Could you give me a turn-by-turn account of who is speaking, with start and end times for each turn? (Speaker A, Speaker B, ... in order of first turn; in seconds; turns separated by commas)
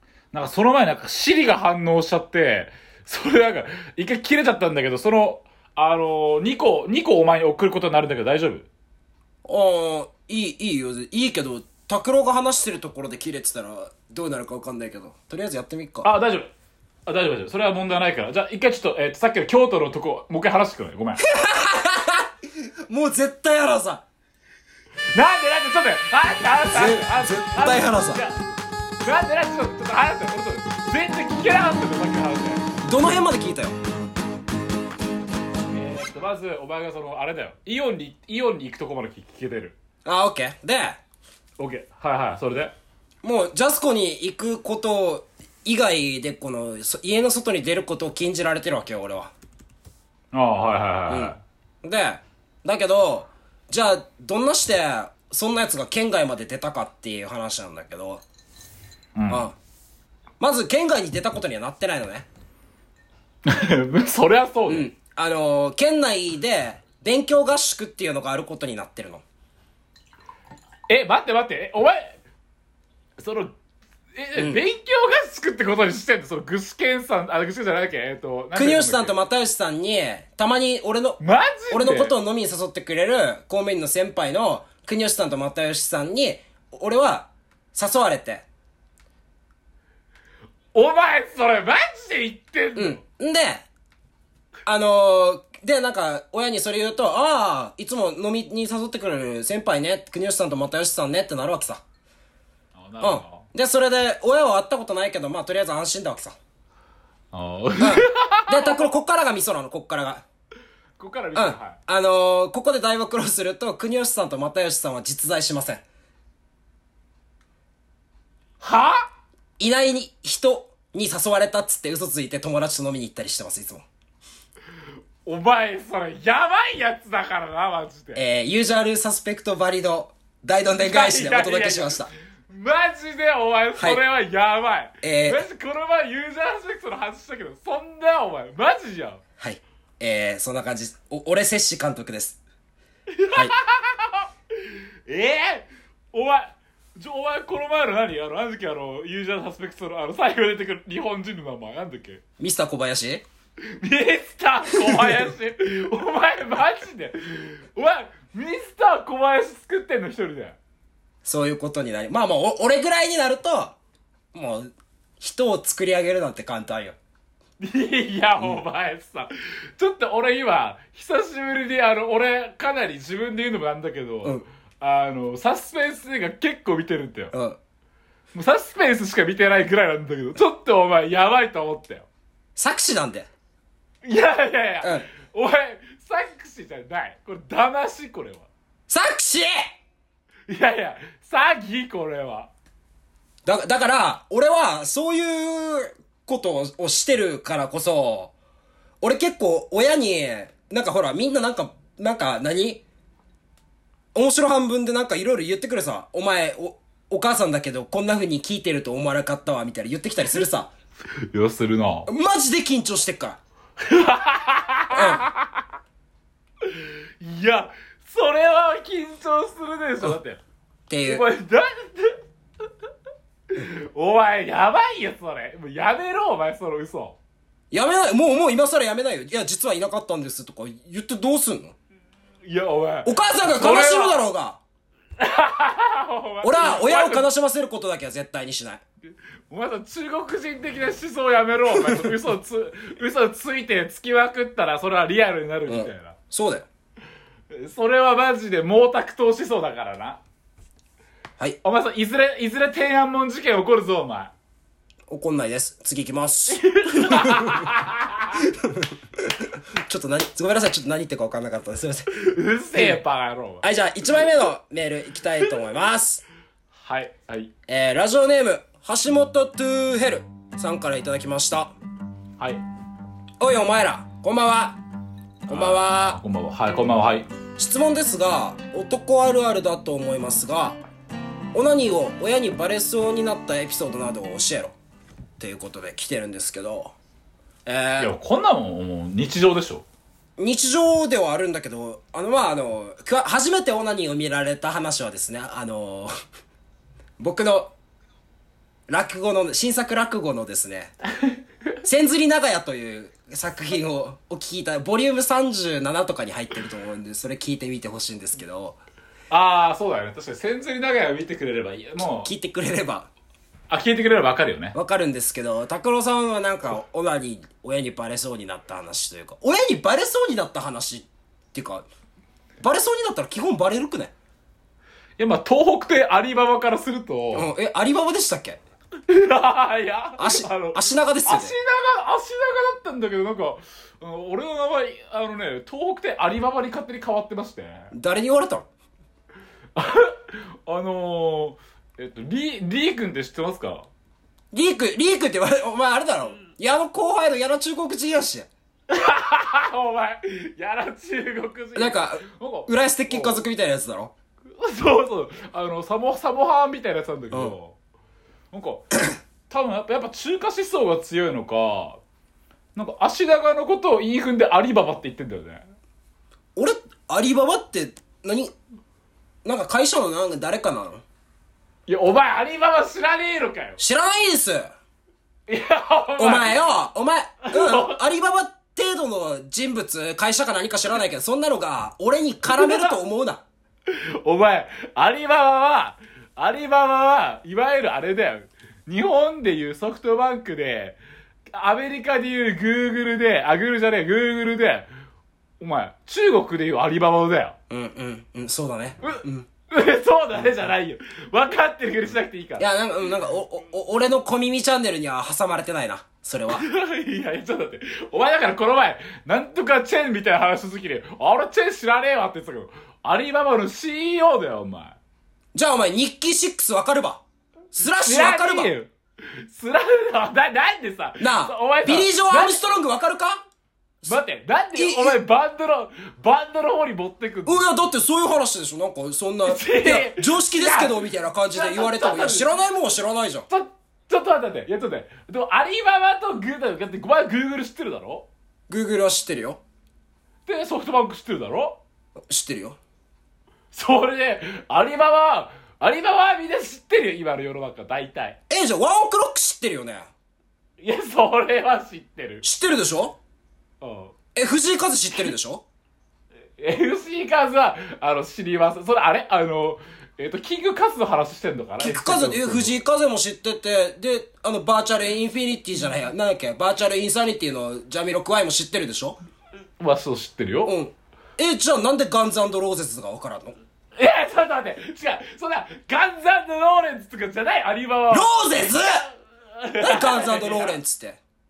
Speaker A: 0.3-8.7, Speaker B: 9.4-16.1, Speaker A: 16.0-16.5, Speaker A: 17.1-21.2, Speaker B: 21.2-22.3, Speaker B: 22.9-24.0, Speaker A: 25.1-28.4, Speaker B: 26.7-28.2, Speaker A: 29.0-32.6, Speaker B: 32.8-33.8, Speaker A: 35.7-39.8, Speaker B: 40.0-41.0, Speaker A: 41.6-42.7, Speaker B: 43.2-49.3, Speaker A: 50.3-51.4, Speaker B: 51.1-58.2, Speaker A: 59.1-59.5, Speaker B: 59.3-59.5, Speaker B: 60.4-62.3, Speaker A: 63.5-64.9, Speaker B: 64.7-69.2, Speaker A: 70.9-72.2, Speaker A: 73.2-73.5, Speaker A: 74.2-79.2, Speaker B: 74.3-74.6, Speaker B: 78.5-88.4, Speaker A: 81.2-82.2, Speaker A: 90.7-93.0, Speaker B: 92.7-93.6, Speaker B: 94.7-101.8, Speaker A: 102.7-103.5, Speaker B: 103.0-106.3, Speaker A: 107.3-108.8, Speaker B: 107.8-110.2, Speaker A: 111.0-111.8, Speaker B: 111.3-115.8, Speaker A: 118.6-119.0, Speaker B: 119.6-123.8, Speaker A: 125.2-128.2, Speaker B: 128.1-132.1, Speaker A: 130.8-139.2, Speaker B: 133.8-134.0, Speaker B: 135.0-135.4, Speaker B: 139.4-142.4, Speaker A: 143.1-152.2, Speaker B: 152.4-153.2, Speaker A: 153.8-160.6, Speaker B: 154.8-155.3, Speaker B: 161.2-163.8, Speaker B: 164.3-166.9, Speaker A: 167.6-177.3, Speaker B: 177.3-177.6, Speaker A: 178.3-182.1, Speaker B: 182.6-183.3, Speaker A: 184.0-188.5, Speaker B: 188.9-189.6, Speaker A: 190.5-192.5, Speaker B: 193.4-198.3, Speaker B: 199.0-202.8, Speaker B: 204.1-210.7, Speaker A: 211.3-212.1, Speaker B: 212.1-213.4, Speaker A: 213.9-215.6, Speaker B: 214.9-215.2, Speaker A: 216.6-220.4, Speaker B: 220.9-221.2, Speaker A: 221.0-222.2, Speaker A: 223.5-227.2, Speaker B: 227.7-231.7, Speaker A: 232.4-234.2, Speaker B: 233.0-234.6, Speaker A: 235.2-237.3, Speaker B: 236.4-238.8, Speaker A: 239.5-246.1, Speaker B: 241.7-242.1, Speaker B: 245.7-246.7, Speaker A: 247.5-250.2, Speaker A: 251.6-254.3, Speaker B: 255.1-257.7, Speaker A: 256.5-258.4, Speaker B: 258.3-262.1, Speaker A: 262.2-263.6, Speaker B: 263.6-266.2, Speaker A: 266.8-267.5, Speaker B: 267.7-271.7, Speaker B: 273.4-274.8, Speaker B: 275.4-276.2, Speaker A: 275.5-277.3, Speaker B: 277.6-280.8, Speaker B: 281.5-284.7, Speaker B: 285.4-286.9, Speaker B: 287.6-288.1, Speaker A: 288.0-289.8, Speaker B: 290.4-296.1, Speaker B: 297.2-297.7, Speaker B: 298.9-300.9, Speaker B: 301.8-308.8, Speaker A: 309.3-312.3, Speaker B: 312.2-313.1, Speaker A: 313.7-314.8, Speaker B: 314.7-321.8, Speaker B: 322.6-324.1, Speaker A: 325.2-327.5, Speaker B: 327.3-328.6, Speaker A: 329.1-337.9, Speaker B: 330.2-331.5, Speaker B: 337.9-338.6, Speaker A: 339.7-343.9, Speaker B: 344.5-348.5, Speaker A: 348.9-353.4, Speaker B: 351.7-354.1, Speaker A: 354.5-357.8, Speaker A: 358.5-362.0, Speaker A: 362.7-365.6, Speaker B: 366.6-368.5, Speaker B: 369.4-371.0, Speaker A: 371.9-373.8, Speaker B: 373.8-374.7, Speaker A: 375.5-376.6, Speaker B: 376.2-383.4, Speaker A: 377.5-378.0, Speaker A: 382.5-383.0, Speaker A: 383.9-391.0, Speaker A: 391.5-394.9, Speaker A: 395.6-397.6, Speaker B: 397.7-399.5, Speaker A: 399.0-402.7, Speaker B: 402.6-406.6, Speaker A: 406.5-415.0, Speaker B: 415.5-418.7, Speaker A: 417.9-422.6, Speaker B: 421.2-423.4, Speaker A: 424.1-427.6, Speaker B: 424.7-425.2, Speaker B: 427.4-433.5, Speaker A: 429.4-431.0, Speaker A: 431.5-432.5, Speaker A: 433.5-438.3, Speaker B: 438.7-439.6, Speaker A: 440.4-441.8, Speaker B: 442.3-442.8, Speaker A: 443.7-448.4, Speaker B: 448.5-450.1, Speaker A: 450.8-452.4, Speaker B: 452.4-453.1, Speaker A: 453.8-454.1, Speaker B: 454.3-455.6, Speaker A: 456.6-462.7, Speaker B: 461.8-469.2, Speaker A: 469.8-470.7, Speaker B: 470.6-473.6, Speaker A: 473.9-478.3, Speaker B: 478.1-479.1, Speaker A: 479.5-480.8, Speaker B: 479.8-481.2